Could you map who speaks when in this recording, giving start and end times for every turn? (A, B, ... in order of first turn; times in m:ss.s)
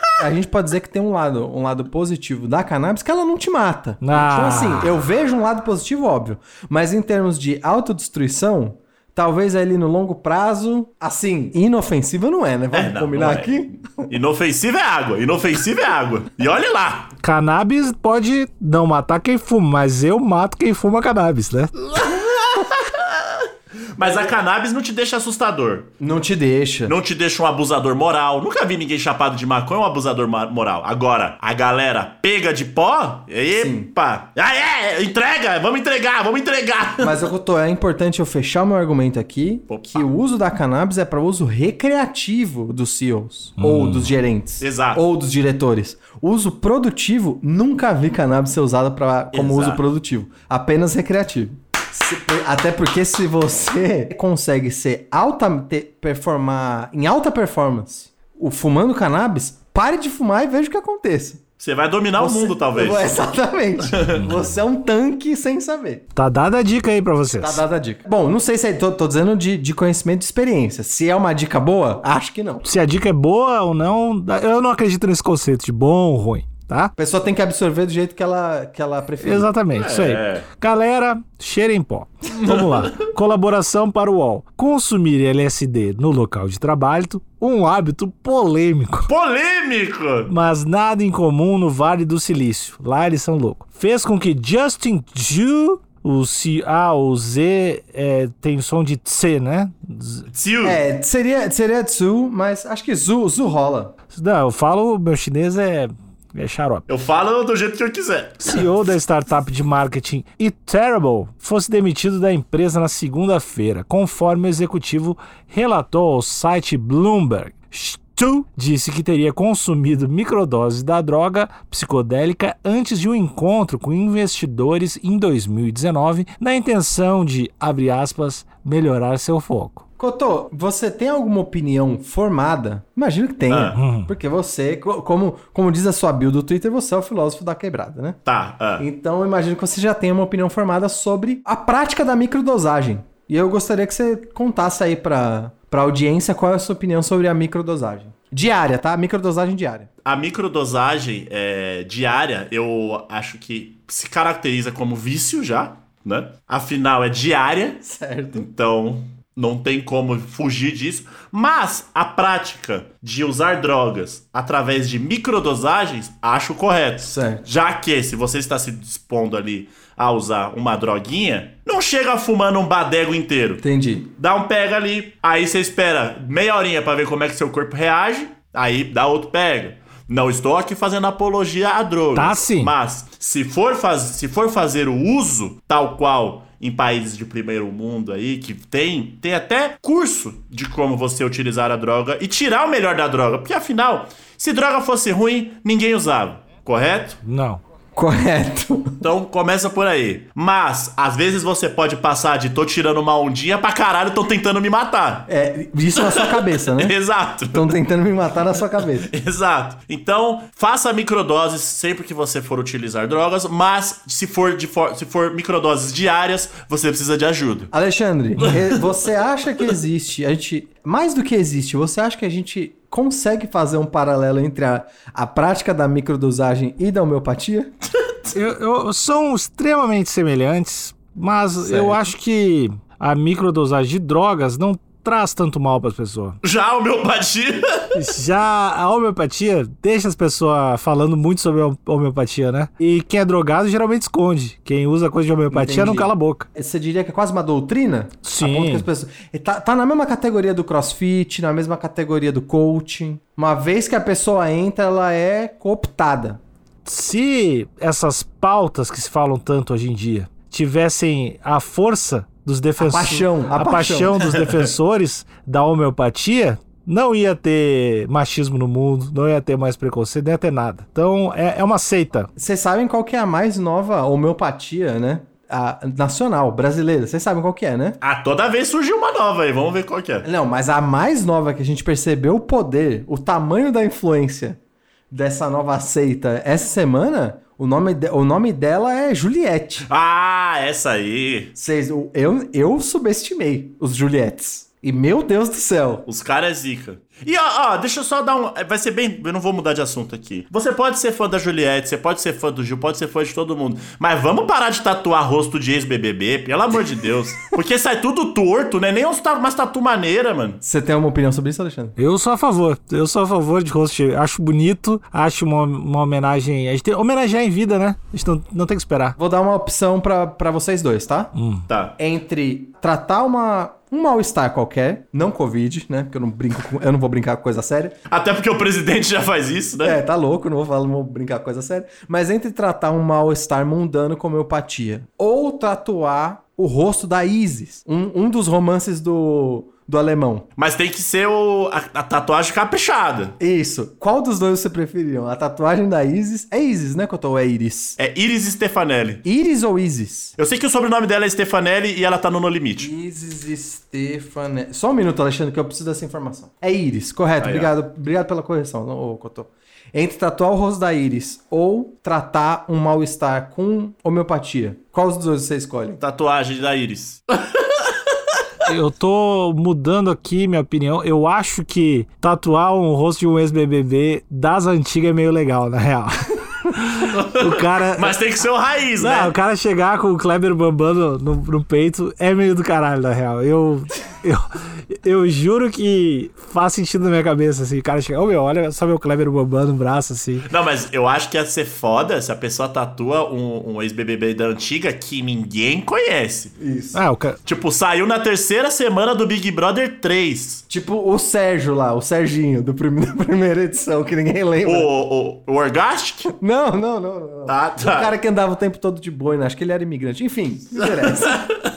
0:00.2-0:13.9 A
0:04.0-0:04.9 B
0:12.7-0:17.1 C
0:17.2-0:21.7 B
0:21.8-0:25.9 C
0:24.0-0:24.3 A
0:26.0-0:26.9 A
0:26.8-0:37.2 C
0:33.5-0:33.9 A
0:37.0-1:01.4 A
0:39.7-0:40.1 C
0:43.6-0:44.1 B
0:44.6-0:45.0 C
0:49.3-0:49.8 C
1:01.6-1:03.0 C
1:02.2-1:06.0 A
1:04.0-1:04.3 C
1:06.1-1:07.6 B
1:07.4-1:12.7 A
1:12.6-1:16.9 B
1:17.0-1:19.5 A
1:19.2-1:29.1 B
1:19.7-1:20.4 C
1:22.4-1:22.9 C
1:29.1-1:30.3 C
1:30.3-1:40.3 B
1:40.3-1:40.8 C
1:40.6-1:43.9 A
1:44.1-1:46.8 B
1:46.9-1:48.6 C
1:48.4-2:09.8 B
2:10.0-2:18.2 A
2:13.5-2:13.8 C
2:13.7-2:14.1 B
2:18.2-2:18.8 C
2:18.8-2:29.9 A
2:30.0-2:37.8 C
2:37.8-2:38.5 A
2:38.3-2:53.6 C
2:47.1-2:47.4 A
2:53.6-2:54.1 A
2:54.2-3:17.2 C
3:02.1-3:02.7 B
3:17.2-3:17.6 B
3:17.9-3:19.0 A
3:19.0-3:25.3 C
3:25.3-3:26.9 A
3:26.0-3:27.7 C
3:27.5-3:29.1 A
3:29.0-3:37.7 C
3:37.7-3:47.7 A
3:48.3-3:56.4 B
3:51.6-3:52.1 A
3:56.4-3:57.9 C
3:57.9-4:06.5 B
4:05.5-4:16.4 A
4:08.2-4:08.9 B
4:16.8-4:32.3 B
4:22.8-4:24.2 A
4:32.4-4:38.0 A
4:38.0-4:40.2 C
4:40.2-4:44.6 A
4:45.1-4:49.9 A
4:49.8-4:51.5 C
4:51.5-4:56.0 A
4:56.0-5:10.6 C
5:10.6-5:12.0 A
5:12.0-5:19.2 B
5:19.2-5:21.3 A
5:21.3-5:21.6 B
5:21.7-5:21.9 C
5:22.0-5:27.9 A
5:28.1-5:30.0 C
5:29.8-5:40.5 A
5:40.6-5:43.3 C
5:43.4-5:48.0 A
5:48.0-5:49.2 C
5:49.2-5:50.4 A
5:50.4-5:52.9 C
5:52.8-6:06.0 A
5:57.4-5:57.7 C
6:06.0-6:07.8 C
6:08.6-6:18.2 B
6:17.1-6:19.3 C
6:19.0-6:30.5 B
6:30.4-6:36.5 C
6:36.6-6:37.0 A
6:36.9-6:37.4 B
6:37.4-6:40.6 C
6:40.7-6:44.9 A
6:44.6-6:46.3 C
6:46.2-6:51.5 A
6:47.5-6:48.1 C